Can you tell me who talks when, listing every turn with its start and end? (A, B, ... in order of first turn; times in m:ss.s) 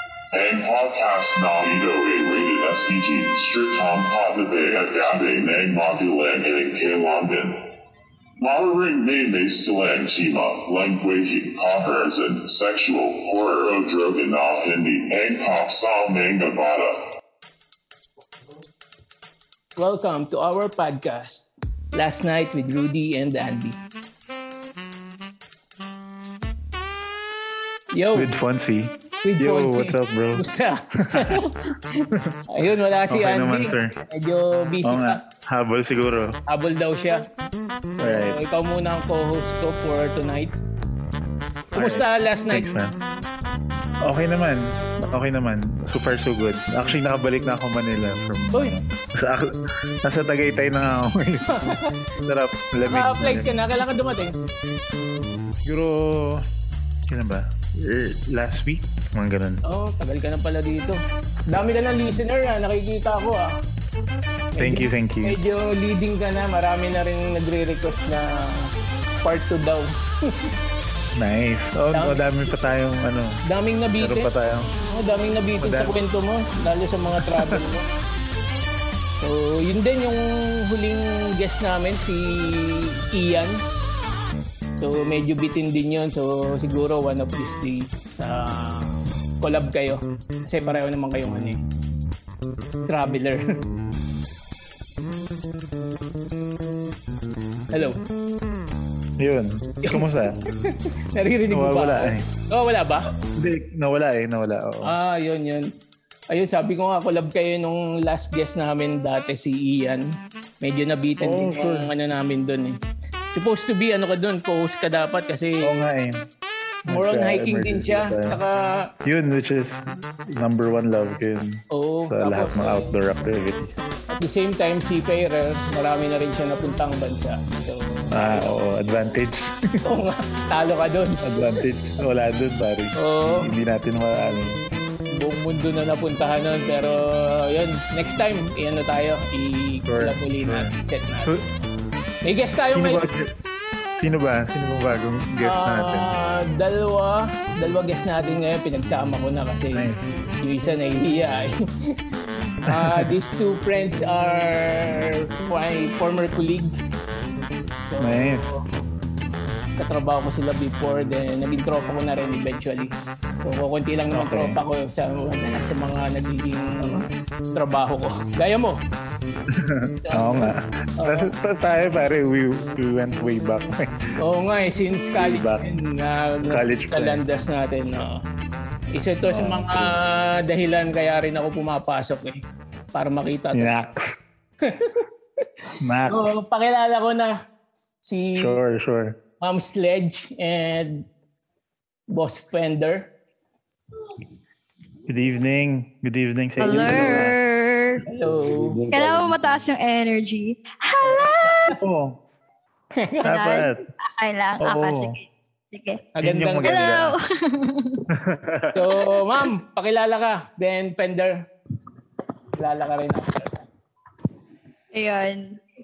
0:00.3-0:07.6 A
0:08.4-0:17.1 A
0:19.8-0:23.8 B
0:27.9-0:28.3 B
0:28.1-0:30.5 C
0:29.2-0:35.2 B
0:31.1-0:31.4 C
0:33.1-0:33.9 C
0:34.8-0:36.4 C
0:36.5-0:37.2 B
0:38.0-0:40.6 B
0:38.0-0:38.4 C
0:41.7-0:42.9 C
0:41.7-0:42.7 B
0:44.0-0:53.5 C
0:51.5-0:51.9 B
0:52.8-0:54.4 B
0:55.6-0:56.4 C
0:57.1-0:59.6 C
0:59.6-1:03.5 B
1:04.5-1:08.7 B
1:04.6-1:05.4 C
1:09.2-1:10.5 B
1:11.2-1:13.4 C
1:11.9-1:12.7 B
1:13.5-1:14.3 B
1:14.0-1:14.7 C
1:14.9-1:17.8 B
1:15.6-1:15.9 C
1:17.2-1:17.6 C
1:19.2-1:23.6 B
1:24.8-1:31.6 B
1:32.9-1:33.4 B
1:37.7-1:38.0 B
1:39.2-1:40.4 C
1:40.7-1:43.1 B
1:41.5-1:42.2 C
1:43.3-1:44.9 C
1:44.8-1:45.7 B
1:46.3-1:52.8 B
1:51.2-1:51.9 C
1:53.3-1:55.8 B
1:55.6-1:56.2 C
1:56.8-1:58.4 C
1:56.9-1:58.9 B
1:59.0-2:03.8 C
2:01.7-2:02.9 B
2:04.1-2:08.5 B
2:08.1-2:09.6 C
2:09.8-2:11.6 B
2:11.2-2:14.6 C
2:13.0-2:13.5 B
2:15.1-2:21.3 B
2:19.9-2:20.7 C
2:22.2-2:23.1 B
2:22.7-2:23.3 C
2:24.0-2:26.1 C
2:25.4-2:29.9 B
2:29.7-2:30.1 C
2:30.4-2:32.0 B
2:32.7-2:33.1 C
2:32.7-2:36.7 B
2:37.9-2:38.6 B
2:38.0-2:38.6 C
2:39.8-2:42.9 B
2:43.4-2:47.0 B
2:44.1-2:44.6 C
2:47.5-2:48.8 B
2:49.5-2:54.0 C
2:50.0-2:51.3 B
2:54.2-2:58.2 B
2:55.2-2:55.7 C
2:56.5-2:57.2 C
2:58.9-3:02.4 B
2:59.2-2:59.9 C
3:02.9-3:03.7 B
3:03.5-3:04.2 C
3:04.6-3:05.4 B
3:05.8-3:06.4 C
3:06.1-3:07.3 B
3:08.0-3:08.6 B
3:08.4-3:09.2 C
3:09.4-3:11.0 B
3:12.1-3:13.1 B
3:15.1-3:17.3 C
3:16.6-3:18.0 D
3:16.6-3:17.3 B
3:18.1-3:18.8 B
3:18.8-3:19.3 C
3:18.9-3:21.7 D
3:21.1-3:21.8 B
3:21.8-3:22.2 C
3:23.0-3:23.3 B
3:23.2-3:23.8 C
3:23.2-3:26.0 D
3:24.6-3:25.2 C
3:26.2-3:27.0 B
3:26.2-3:27.1 C
3:26.6-3:28.0 D
3:28.1-3:28.9 C
3:28.7-3:31.4 B
3:32.6-3:33.6 B
3:34.9-3:35.6 D